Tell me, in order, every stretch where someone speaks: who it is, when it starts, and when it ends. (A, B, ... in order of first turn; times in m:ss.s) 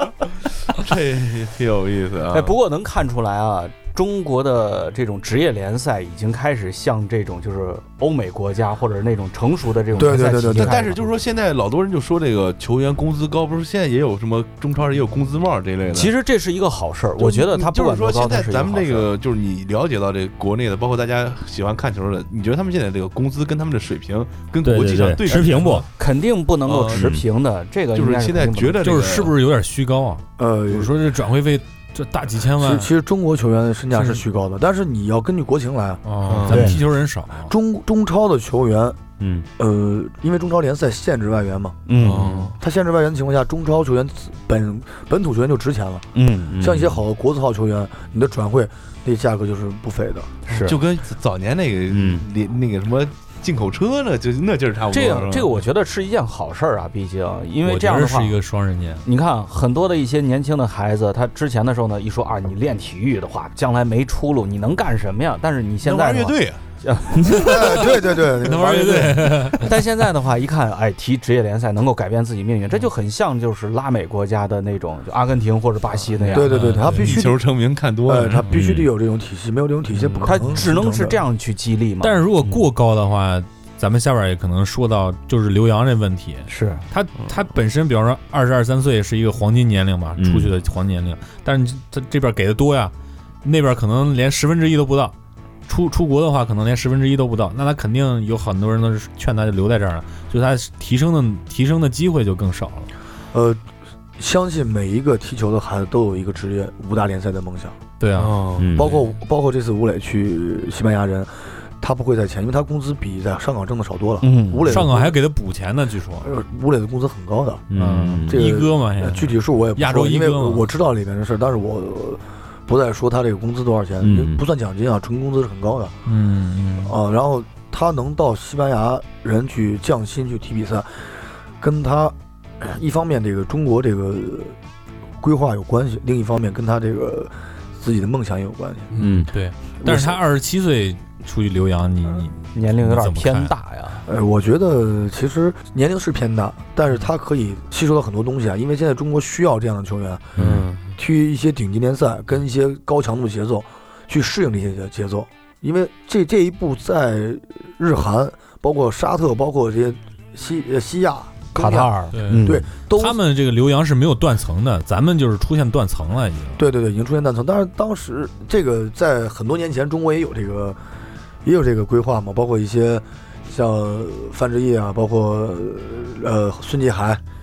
0:00.7-0:02.5 A
0:02.3-0:11.0 B
0:10.0-0:10.8 C
0:10.3-0:16.1 A
0:15.9-0:19.1 B
0:17.2-0:25.9 A
0:24.6-0:25.9 D
0:25.3-0:28.9 B
0:26.6-0:27.2 A
0:26.9-0:27.2 D
0:27.9-0:29.3 A
0:28.8-0:32.9 E
0:30.4-0:30.9 C
0:32.6-0:36.0 C
0:33.9-0:34.2 E
0:36.0-0:37.5 E
0:36.2-0:36.7 A
0:36.5-0:36.8 B
0:37.4-0:39.0 C
0:39.2-0:39.4 D
0:39.6-0:41.9 C
0:41.9-0:42.3 B
0:42.0-0:42.6 A
0:42.6-0:50.4 C
0:46.1-0:46.6 B
0:46.5-0:47.0 D
0:50.5-0:50.8 B
0:50.5-0:55.6 A
0:51.9-0:52.2 D
0:54.9-0:58.4 B
0:57.6-0:59.0 E
0:59.0-1:07.9 B
1:05.8-1:06.6 A
1:07.3-1:09.6 C
1:07.9-1:09.8 E
1:09.5-1:16.7 B
1:16.2-1:18.6 A
1:16.3-1:17.4 C
1:16.4-1:17.2 E
1:18.0-1:21.2 C
1:18.5-1:18.9 D
1:20.2-1:22.3 B
1:22.0-1:35.1 E
1:26.5-1:26.8 B
1:30.2-1:30.5 D
1:35.7-1:42.9 E
1:43.3-1:43.6 C
1:44.2-1:47.8 C
1:48.0-1:48.5 E
1:48.2-1:48.9 A
1:48.6-1:48.9 D
1:48.7-1:55.2 C
1:54.2-1:54.8 B
1:54.6-1:56.3 E
1:56.2-1:57.7 C
1:57.7-1:58.4 D
1:57.7-2:00.7 E
1:58.2-2:06.0 C
2:04.0-2:04.4 D
2:06.0-2:07.0 E
2:06.8-2:14.6 C
2:15.2-2:18.9 C
2:19.0-2:23.6 E
2:19.0-2:19.3 D
2:19.8-2:20.2 C
2:22.5-2:24.0 B
2:24.0-2:30.4 C
2:30.4-2:30.6 D
2:30.4-2:30.9 A
2:31.0-2:43.2 C
2:41.5-2:42.6 B
2:42.1-2:46.6 E
2:46.6-2:50.8 C
2:51.4-2:57.2 C